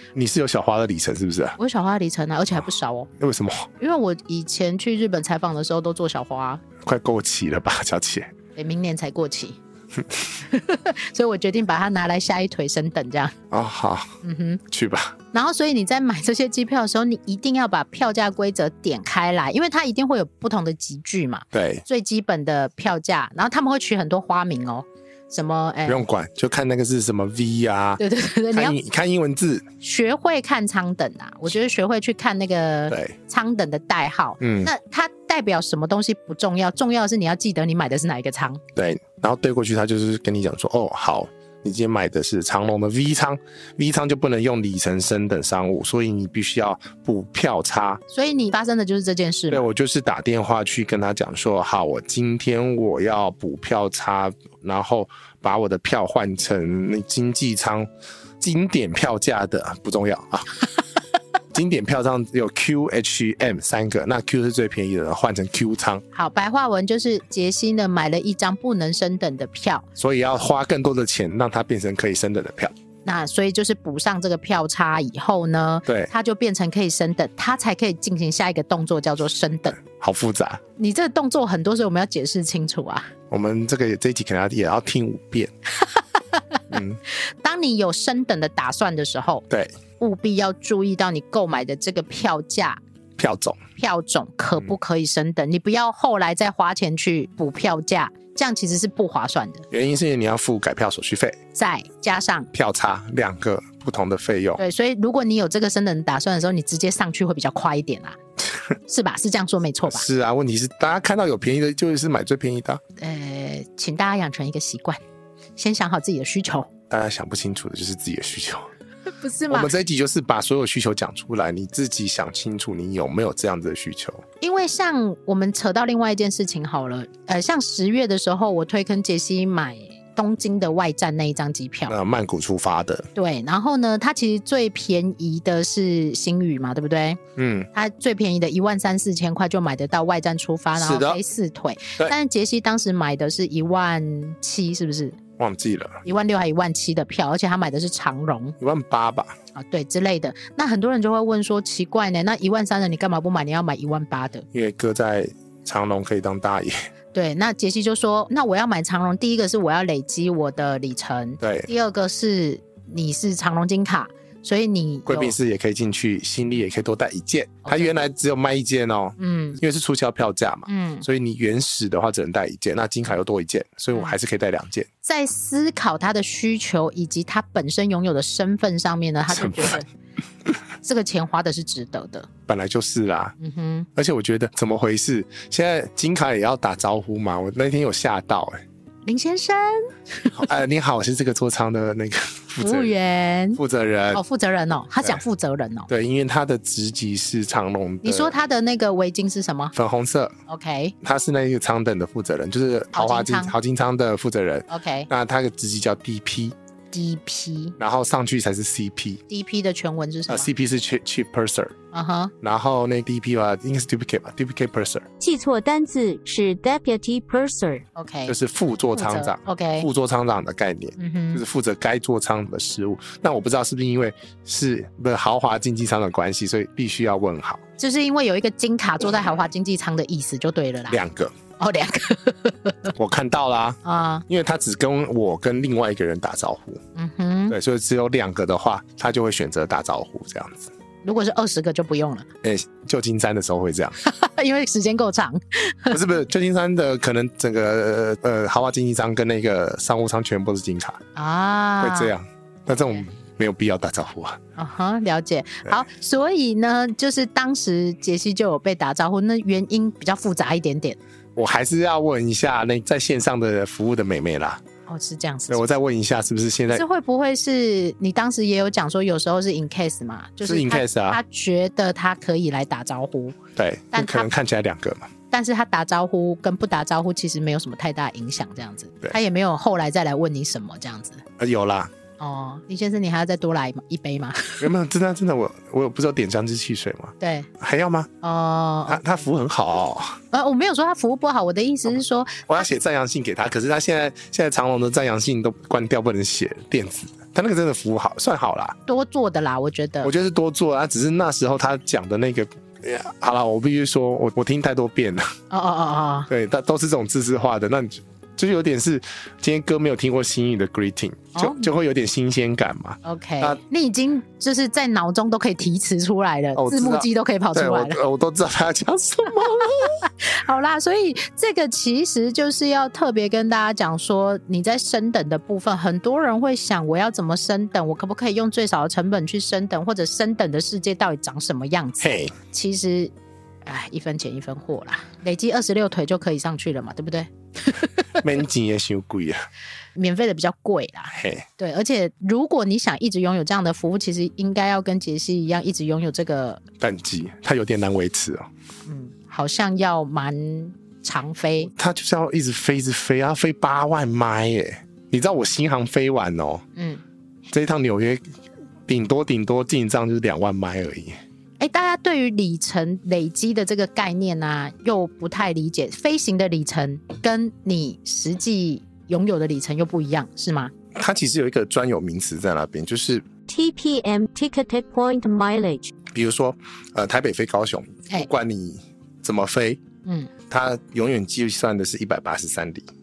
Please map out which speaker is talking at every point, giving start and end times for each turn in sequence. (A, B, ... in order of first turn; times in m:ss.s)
0:00.1-0:01.6 A
0:01.6-0:03.1 B
0:03.2-0:03.7 A
0:03.8-0:06.6 B
0:06.8-0:08.3 A
0:08.5-0:09.6 B
0:10.4-0:13.4 B
0:13.5-0:14.1 A
0:14.2-0:14.6 B
0:14.7-0:15.2 A
0:15.3-0:26.0 B
0:21.5-0:21.8 A
0:25.8-0:28.0 A
0:28.0-0:28.8 B
0:28.5-0:29.7 A
0:29.8-0:38.6 B
0:32.9-0:33.1 A
0:34.4-0:34.7 A
0:38.7-0:48.0 A
0:48.1-0:49.6 B
0:49.5-0:57.9 A
0:58.4-1:00.6 A
1:01.5-1:06.0 A
1:06.1-1:09.8 B
1:10.0-1:12.7 A
1:13.0-1:19.8 B
1:15.8-1:16.1 A
1:19.8-1:20.6 A
1:20.8-1:23.1 B
1:23.3-1:25.5 A
1:26.7-1:27.0 A
1:27.1-1:29.4 B
1:29.5-1:29.7 A
1:30.0-1:32.8 B
1:33.2-1:33.6 A
1:33.8-1:39.6 B
1:39.7-1:41.4 A
1:41.5-1:42.5 B
1:42.5-1:44.6 A
1:44.6-1:48.2 B
1:48.9-1:50.0 B
1:49.8-1:52.8 A
1:53.0-1:55.0 B
1:55.6-1:56.7 B
1:56.9-1:58.7 A
1:59.2-1:59.7 B
1:59.5-2:04.2 A
2:04.4-2:12.0 B
2:11.9-2:13.1 A
2:13.1-2:17.2 B
2:17.4-2:17.7 A
2:17.7-2:25.2 B
2:20.7-2:21.2 A
2:25.4-2:26.0 A
2:26.0-2:28.6 B
2:28.6-2:29.3 A
2:29.5-2:34.4 B
2:34.5-2:36.8 A
2:37.1-2:45.3 B
2:41.4-2:41.7 A
2:45.1-2:54.9 A
2:47.6-2:47.9 B
2:49.2-2:49.6 B
2:50.7-2:51.0 B
2:55.0-2:59.9 B
2:59.3-2:59.8 A
3:00.8-3:02.3 B
3:02.5-3:03.4 A
3:03.4-3:03.9 B
3:04.0-3:08.6 A
3:09.0-3:10.4 B
3:10.3-3:12.9 A
3:12.6-3:13.6 B
3:13.5-3:14.2 A
3:14.1-3:15.9 B
3:15.9-3:18.3 A
3:18.0-3:19.7 B
3:19.7-3:20.3 A
3:20.5-3:20.9 B
3:21.0-3:26.5 A
3:22.9-3:23.5 B
3:24.7-3:25.1 B
3:26.9-3:27.8 B
3:27.8-3:29.2 A
3:29.3-3:30.5 B
3:30.3-3:31.7 A
3:31.9-3:32.3 B
3:32.4-3:35.1 A
3:35.2-3:37.8 C
3:38.0-3:38.3 B
3:38.3-3:47.6 A
3:38.9-3:39.9 B
3:41.0-3:41.4 B
3:47.8-3:51.0 B
3:50.9-3:51.3 A
3:51.6-3:52.9 B
3:53.0-3:56.8 A
3:53.8-3:54.2 B
3:56.9-3:57.6 B
3:57.5-4:00.7 A
4:01.0-4:02.3 B
4:02.4-4:04.0 A
4:04.0-4:06.0 B
4:05.9-4:11.0 A
4:11.2-4:12.1 B
4:11.8-4:14.4 A
4:12.7-4:13.0 B
4:14.6-4:21.0 B
4:21.4-4:24.6 A
4:24.9-4:25.6 B
4:25.5-4:26.8 A
4:26.7-4:33.4 B
4:30.4-4:31.2 A
4:33.6-4:35.1 A
4:33.9-4:34.3 B
4:35.3-4:41.2 B
4:41.4-4:41.9 A
4:42.2-4:44.7 B
4:44.6-4:48.1 A
4:47.2-4:47.5 B
4:48.2-4:49.0 B
4:48.9-4:50.2 A
4:50.3-4:52.5 B
4:52.4-4:58.8 A
4:58.8-5:00.1 B
5:00.0-5:05.3 A
5:05.5-5:06.3 B
5:06.3-5:13.6 A
5:11.3-5:11.7 B
5:13.0-5:18.0 B
5:16.5-5:20.0 A
5:19.8-5:33.1 B
5:32.0-5:32.3 A
5:33.6-5:38.1 B
5:38.2-5:39.4 A
5:40.0-5:46.6 B
5:41.1-5:41.4 A
5:46.8-5:48.5 A
5:48.9-5:51.7 B
5:51.7-5:56.6 A
5:56.8-5:57.0 B
5:57.5-5:58.2 A
5:58.9-6:01.2 A
6:01.6-6:10.7 B
6:10.9-6:13.2 A
6:13.5-6:15.9 C
6:16.1-6:19.8 A
6:20.0-6:20.3 B
6:20.5-6:22.9 A